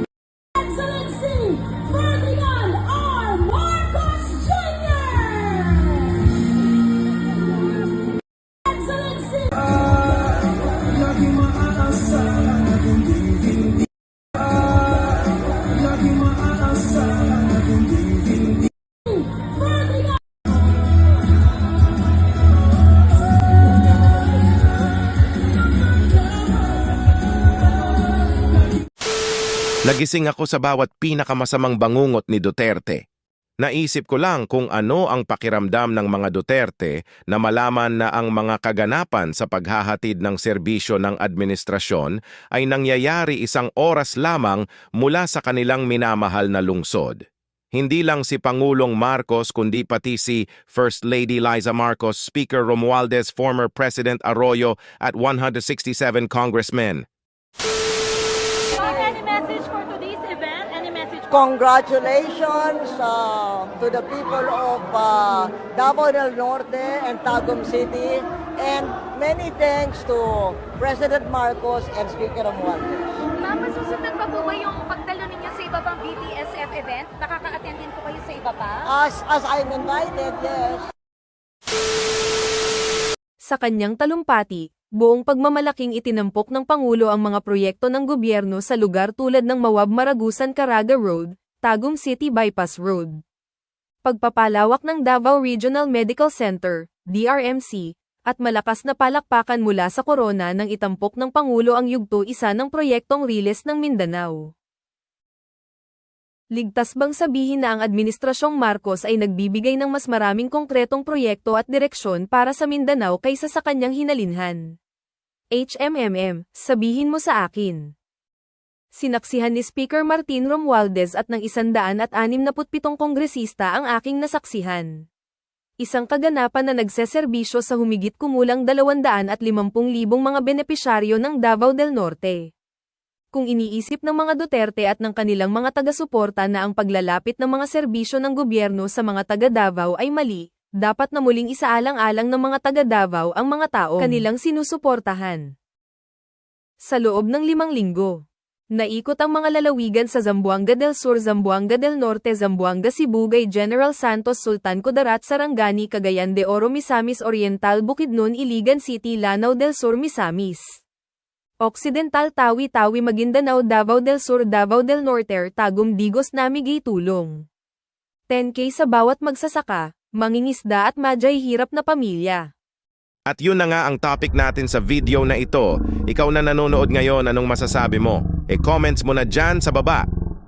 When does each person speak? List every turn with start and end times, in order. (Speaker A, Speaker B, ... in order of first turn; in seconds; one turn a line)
Speaker A: 0.8-6.0
Speaker A: 9.0-9.6
Speaker A: 11.9-12.7
Speaker B: 29.8-33.0
Speaker B: 33.6-57.1
Speaker C: 58.7-59.5
Speaker A: 60.0-60.6
Speaker C: 61.1-73.5
Speaker A: 73.5-75.7
Speaker C: 75.5-77.3
Speaker A: 76.3-78.4
Speaker C: 77.8-80.9
Speaker D: 83.4-93.2
Speaker D: 94.0-104.5
Speaker D: 106.5-114.8
Speaker D: 115.5-117.9
Speaker D: 118.9-125.1
Speaker D: 125.8-132.5
Speaker D: 133.3-145.5
Speaker D: 146.8-148.2
Speaker D: 148.8-160.8
Speaker D: 161.6-167.5
Speaker D: 168.3-172.5
Speaker B: 173.3-180.1